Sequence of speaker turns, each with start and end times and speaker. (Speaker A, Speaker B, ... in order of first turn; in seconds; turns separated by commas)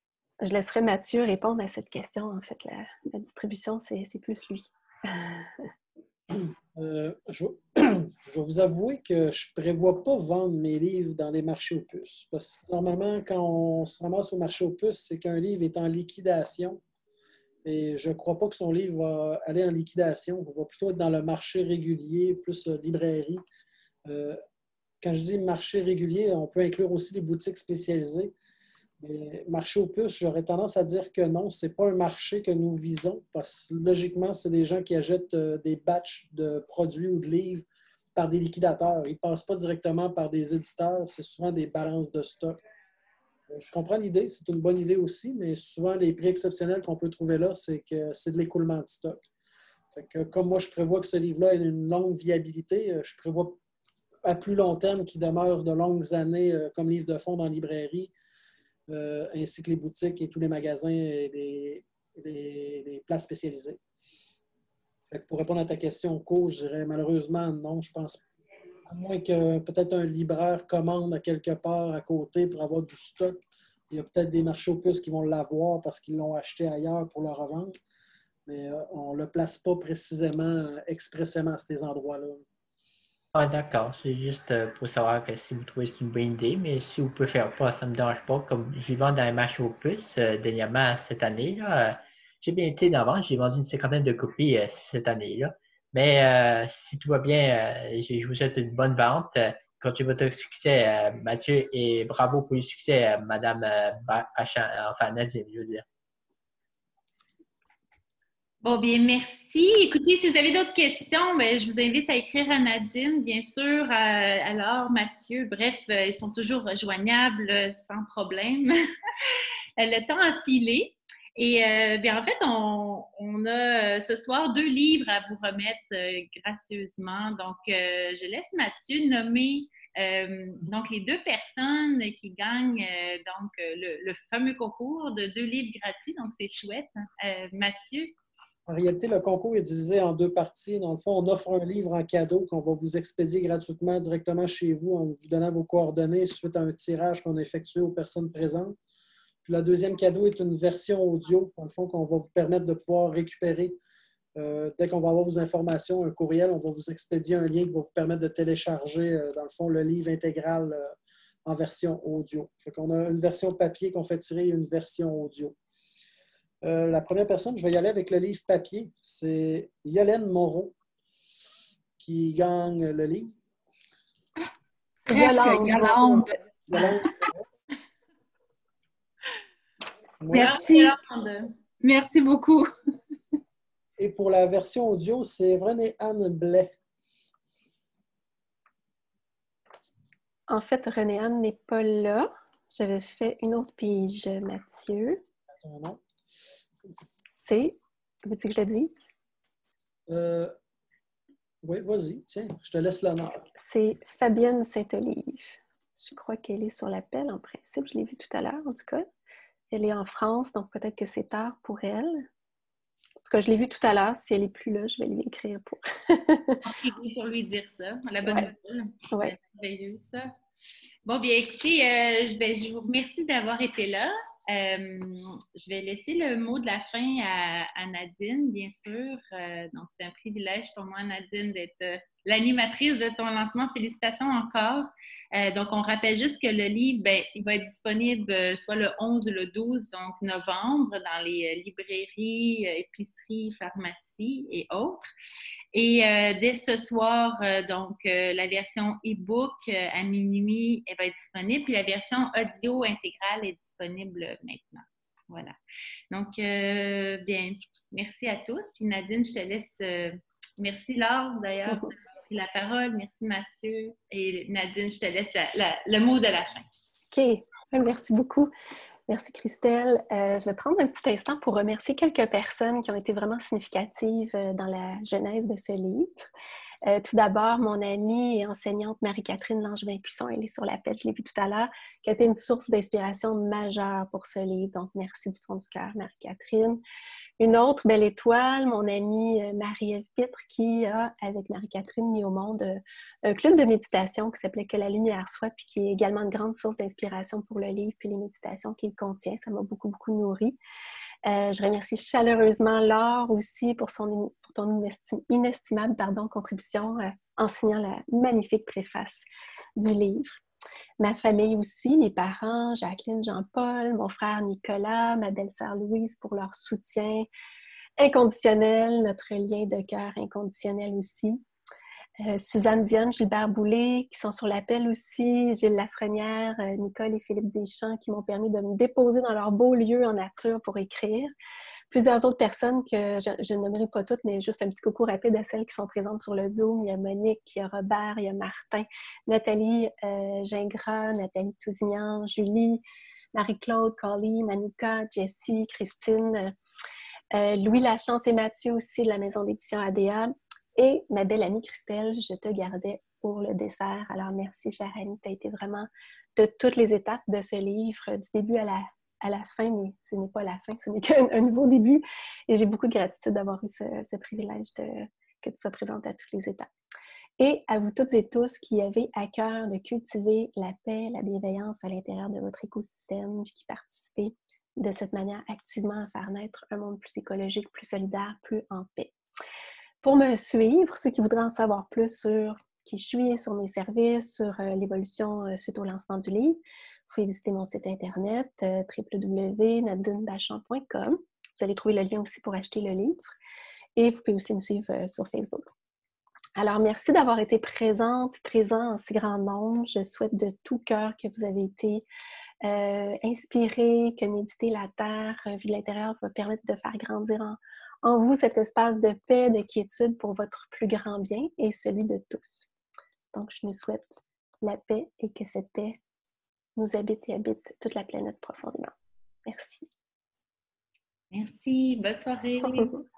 Speaker A: 0.4-5.2, Speaker B: 6.8-16.8, Speaker B: 17.6-23.4, Speaker B: 24.1-24.4, Speaker B: 25.0-28.3, Speaker B: 29.0-37.6, Speaker B: 38.1-42.6, Speaker B: 43.5-49.2, Speaker B: 49.9-53.6, Speaker B: 54.2-58.1, Speaker B: 58.9-63.8, Speaker B: 65.1-68.2, Speaker B: 68.9-73.4, Speaker B: 73.9-77.7, Speaker B: 78.5-82.4, Speaker C: 83.3-105.8, Speaker D: 108.6-118.7, Speaker D: 119.8-138.1, Speaker B: 138.7-148.8, Speaker B: 149.4-153.8, Speaker B: 154.3-160.9, Speaker B: 161.4-165.6, Speaker B: 166.6-170.7, Speaker B: 172.0-173.3, Speaker A: 175.1-176.2, Speaker E: 175.1-176.9, Speaker B: 176.7-177.4, Speaker B: 180.2-180.6, Speaker E: 180.3-181.0, Speaker D: 180.3-181.4, Speaker E: 181.8-182.7, Speaker B: 184.0-186.7, Speaker A: 190.5-195.2, Speaker B: 195.6-196.0, Speaker A: 197.4-199.0, Speaker B: 200.1-200.5, Speaker B: 201.6-203.5, Speaker A: 203.5-209.1, Speaker A: 209.7-212.2, Speaker A: 213.2-216.6, Speaker D: 216.6-220.3, Speaker A: 219.1-219.3, Speaker D: 221.0-245.1, Speaker D: 245.7-255.6, Speaker D: 256.1-266.7, Speaker A: 267.1-268.5, Speaker A: 269.1-276.3, Speaker A: 276.8-286.8, Speaker A: 287.4-300.6, Speaker A: 301.2-310.4, Speaker A: 311.0-317.3, Speaker A: 318.0-321.4, Speaker A: 322.2-331.3, Speaker A: 331.9-342.8, Speaker A: 343.3-346.6, Speaker A: 347.3-366.7, Speaker A: 367.4-379.1, Speaker A: 380.0-386.6, Speaker A: 387.1-393.2, Speaker A: 393.9-395.7, Speaker A: 396.6-402.1, Speaker A: 402.6-412.7, Speaker A: 413.3-416.0, Speaker A: 416.8-418.9, Speaker A: 419.4-419.9, Speaker D: 421.3-423.0, Speaker A: 422.7-423.0